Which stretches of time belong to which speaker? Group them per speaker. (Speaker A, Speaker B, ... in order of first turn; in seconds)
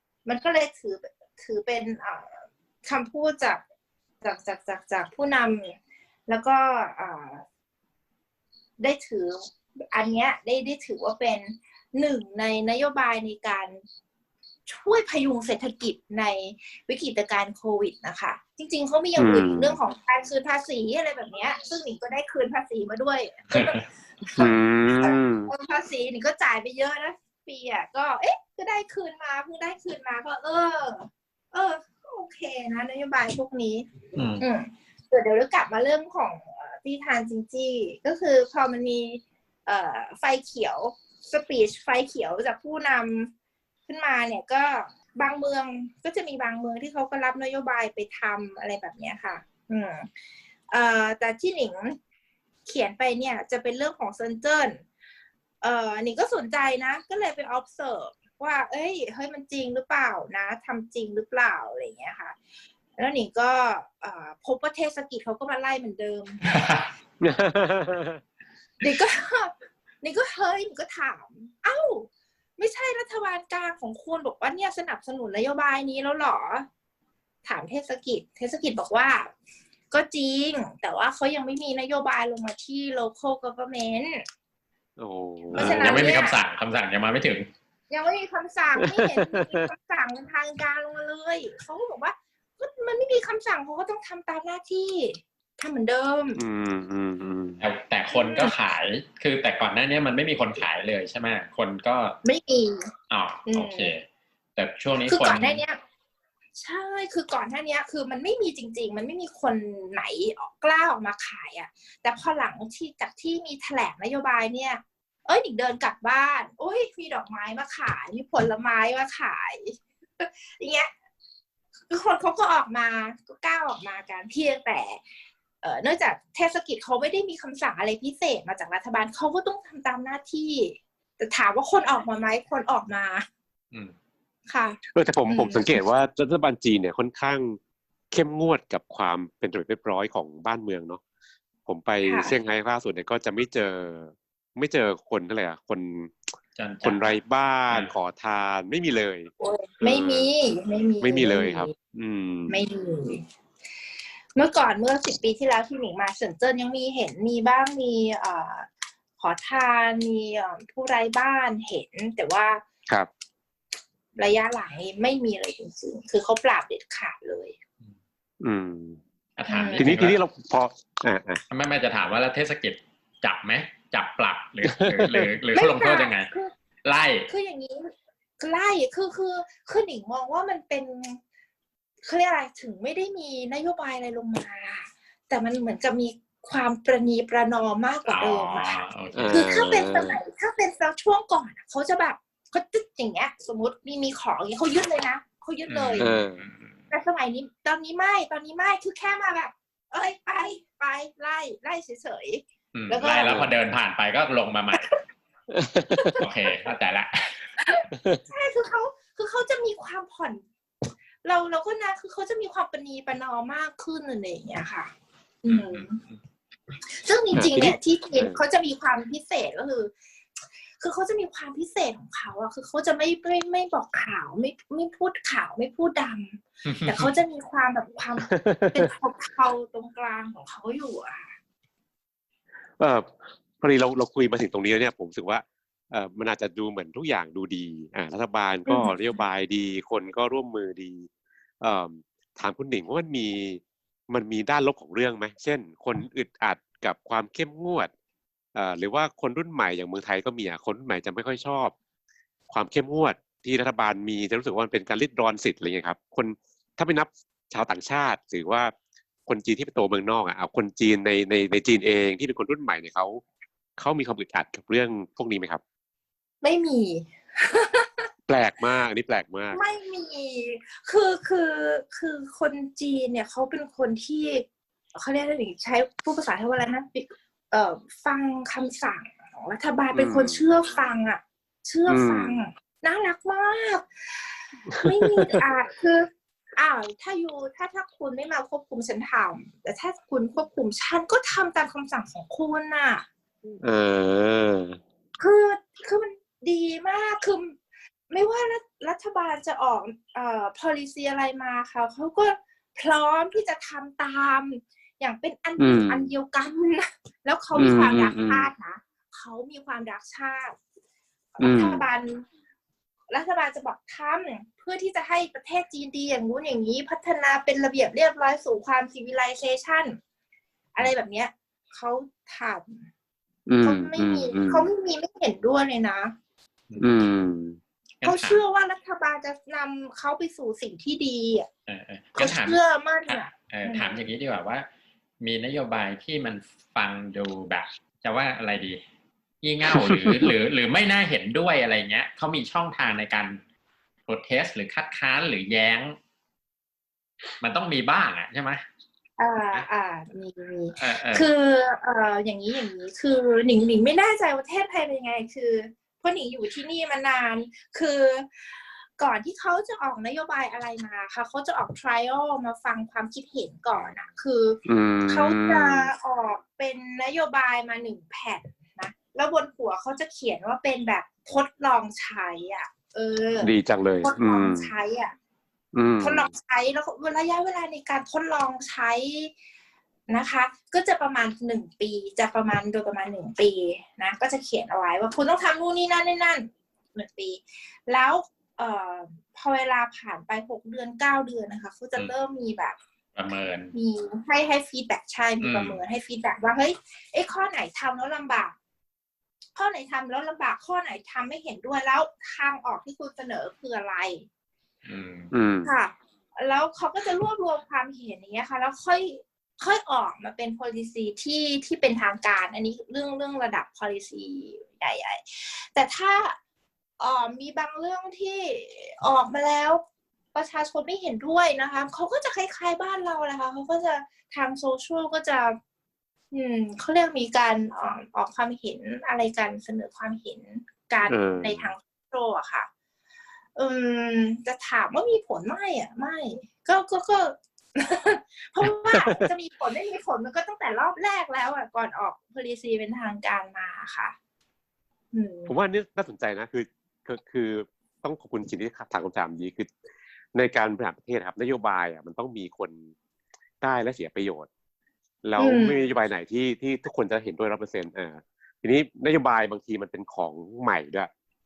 Speaker A: 0.2-3.6, 4.2-7.4, 8.8-13.8, 14.7-33.9, 34.4-43.3, 43.9-50.1, 50.7-52.0, 52.6-54.8, 55.6-62.4, 63.0-66.4, 68.8-76.7, 77.4-79.3, 79.9-84.2, 85.5-86.4, 87.9-96.4, 98.1-98.5, 102.2-102.9, 103.5-103.9, 105.0-105.8, 106.5-120.9, 121.9-125.0, 125.6-133.2, 134.5-135.8, 142.0-142.3, 149.4-151.7, 152.5-153.2, 154.3-162.6, 164.1-167.6, 169.5-169.9, 175.5-176.5, 177.3-181.2, 182.0-196.1, 196.9-203.5, 206.0-206.2, 207.6-210.4, 211.2-214.9, 215.4-216.0, 216.9-219.9, 220.8-231.3, 238.7-238.9, 266.4-268.1, 269.5-293.1, 295.2-310.6, 311.3-312.2, 313.1-320.0, 320.7-322.9, 323.6-326.1, 328.0-331.5, 332.2-334.0, 349.2-375.1, 376.0-379.3, 380.1-392.8, 393.7-398.5, 399.5-404.2, 405.6-416.4, 417.0-419.8, 420.3-425.6, 426.3-432.7, 433.5-444.1, 445.1-445.5, 455.4-455.8
Speaker B: 19.1-19.8, 24.4-25.5, 67.2-68.2, 85.0-86.1, 88.8-89.7, 96.3-97.6, 134.9-137.6, 138.1-141.0, 141.7-146.2, 146.8-150.3, 151.0-152.6, 168.4-169.0, 169.8-171.4, 174.6-175.2, 189.2-190.2, 196.0-196.4, 205.5-206.2, 217.3-218.4, 228.2-228.9, 232.8-241.1, 241.6-247.9, 248.5-251.7, 252.5-258.7, 259.2-263.2, 263.8-265.6, 268.3-269.6, 279.9-280.5, 281.9-282.4, 284.7-285.4, 293.6-294.8, 305.6-306.1, 307.5-308.5, 311.4-311.8, 323.5-324.7, 326.8-327.6, 339.8-340.3, 364.6-365.9, 373.4-374.7, 375.7-376.3, 405.3-405.7, 431.1-431.7, 438.6-439.3, 445.5-449.7, 450.3-452.9, 453.6-454.5, 455.2-461.1
Speaker C: 34.1-34.4, 66.5-66.8, 85.5-87.5, 97.6-102.2, 103.1-105.6, 146.5-147.1, 169.4-170.2, 171.5-176.3, 176.8-177.3, 188.1-189.7, 195.7-196.7, 202.7-204.9, 206.2-207.4, 215.5-216.1, 226.6-227.1, 326.7-327.0, 328.0-328.4, 331.7-334.7, 335.2-338.8, 339.4-343.4, 344.1-346.0, 347.4-348.6, 350.7-351.3, 393.1-393.7, 395.4-395.8, 404.8-405.3